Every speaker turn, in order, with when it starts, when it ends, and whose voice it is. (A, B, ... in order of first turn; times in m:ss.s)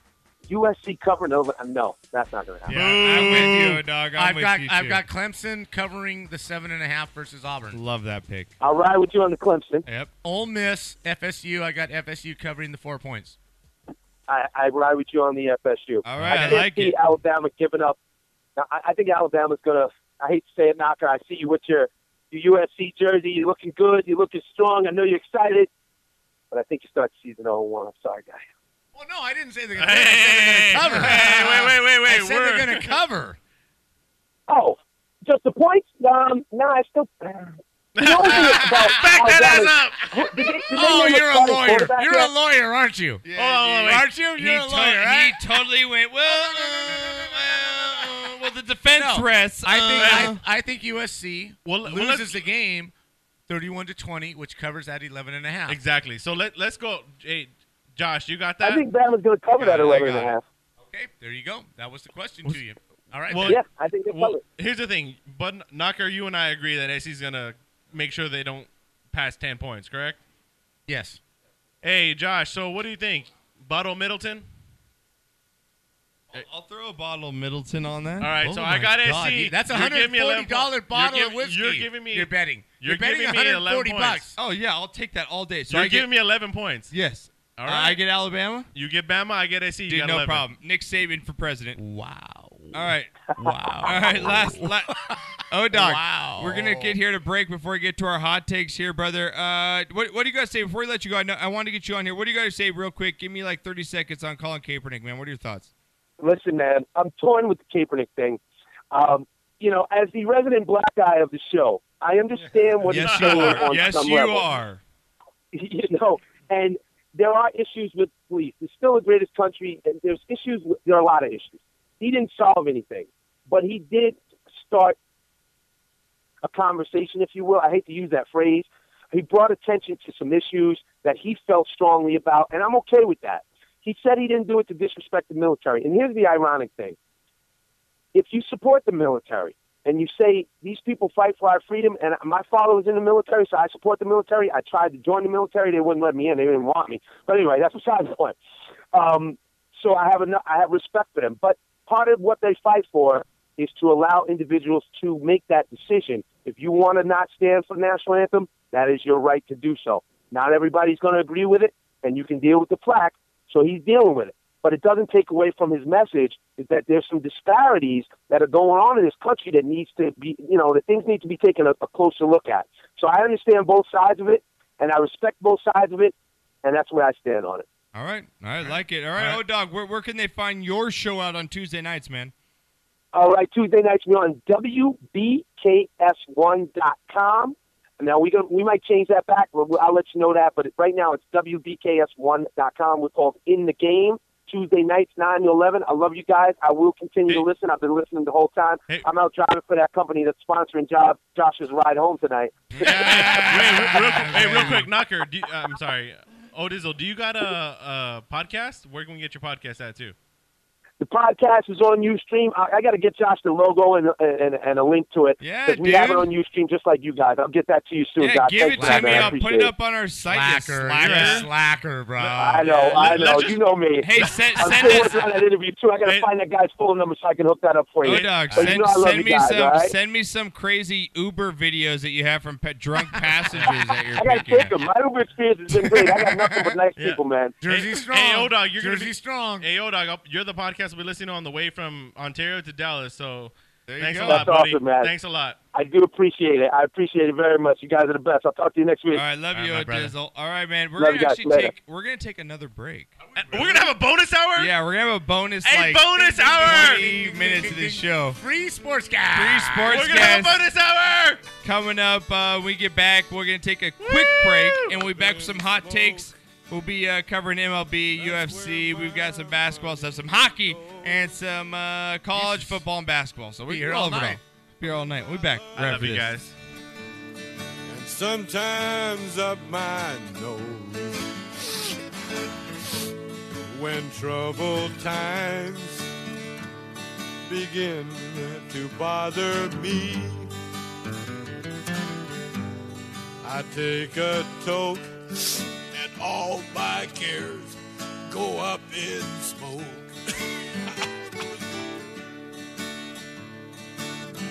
0:00.5-0:02.7 A
0:02.7-0:05.0 B
0:02.7-0:03.7 C
0:02.7-0:07.8 D
0:07.7-0:08.5 B
0:08.6-0:09.8 A
0:09.8-0:10.1 B
0:10.2-0:13.4 D
0:14.3-0:18.0 A
0:16.0-0:17.0 B
0:18.6-0:25.7 A
0:26.5-0:28.4 A
0:28.9-0:33.4 D
0:29.8-0:32.9 C
0:30.9-0:31.3 B
0:34.5-0:42.3 A
0:38.0-0:40.0 C
0:38.7-0:39.2 D
0:40.7-0:43.2 D
0:43.2-0:50.4 B
0:43.4-0:44.1 C
0:43.8-0:45.4 D
0:46.3-0:47.7 D
0:49.0-0:52.9 D
0:50.0-0:50.3 C
0:51.6-0:52.4 C
0:53.5-0:55.8 D
0:55.7-0:58.8 C
0:58.6-1:00.4 A
0:59.6-1:00.3 B
1:00.9-1:03.6 D
1:03.3-1:10.2 C
1:03.4-1:04.4 A
1:10.9-1:11.2 D
1:11.8-1:14.5 C
1:16.3-1:18.3 B
1:18.2-1:24.3 C
1:18.4-1:24.3 D
1:24.4-1:26.1 B
1:25.7-1:26.9 C
1:26.9-1:28.7 B
1:27.6-1:28.0 C
1:28.7-1:30.4 C
1:29.9-1:31.8 B
1:31.8-1:35.2 D
1:32.7-1:45.7 B
1:35.7-1:37.0 D
1:46.2-1:54.5 A
1:52.8-1:54.8 B
1:52.9-1:53.7 C
1:55.5-2:05.0 A
2:06.4-2:17.0 A
2:18.1-2:28.4 A
2:28.9-2:57.6 A
2:57.9-3:02.3 B
3:03.1-3:23.2 A
3:22.7-3:24.8 B
3:22.8-3:30.1 C
3:24.3-3:24.8 D
3:31.0-3:39.7 A
3:35.4-3:36.3 B
3:38.2-3:41.5 B
3:38.7-3:39.4 D
3:40.3-3:42.6 D
3:41.0-3:41.4 C
3:42.2-3:43.4 B
3:42.4-3:49.9 A
3:42.6-3:45.0 C
3:44.0-3:45.4 B
3:46.0-3:46.3 C
3:48.0-3:54.7 B
3:48.1-3:48.3 C
3:48.5-3:48.8 D
3:54.1-3:57.6 A
3:55.8-3:56.7 B
3:57.0-4:05.6 C
3:57.6-3:59.7 D
4:03.9-4:04.5 B
4:04.2-4:05.1 A
4:05.7-4:09.2 A
4:09.1-4:13.6 B
4:09.5-4:10.1 D
4:11.0-4:11.7 A
4:13.4-4:13.6 E
4:13.4-4:14.7 C
4:14.6-4:18.4 B
4:15.6-4:17.1 C
4:16.6-4:20.3 D
4:19.3-4:20.6 B
4:19.9-4:21.4 C
4:21.6-4:36.4 B
4:24.0-4:25.0 C
4:24.9-4:26.3 E
4:28.1-4:31.4 E
4:32.3-4:32.8 D
4:33.7-4:34.4 D
4:34.8-4:36.0 E
4:35.8-4:36.5 C
4:37.8-4:41.3 E
4:43.6-4:46.1 E
4:47.5-4:50.5 E
4:53.4-5:00.1 E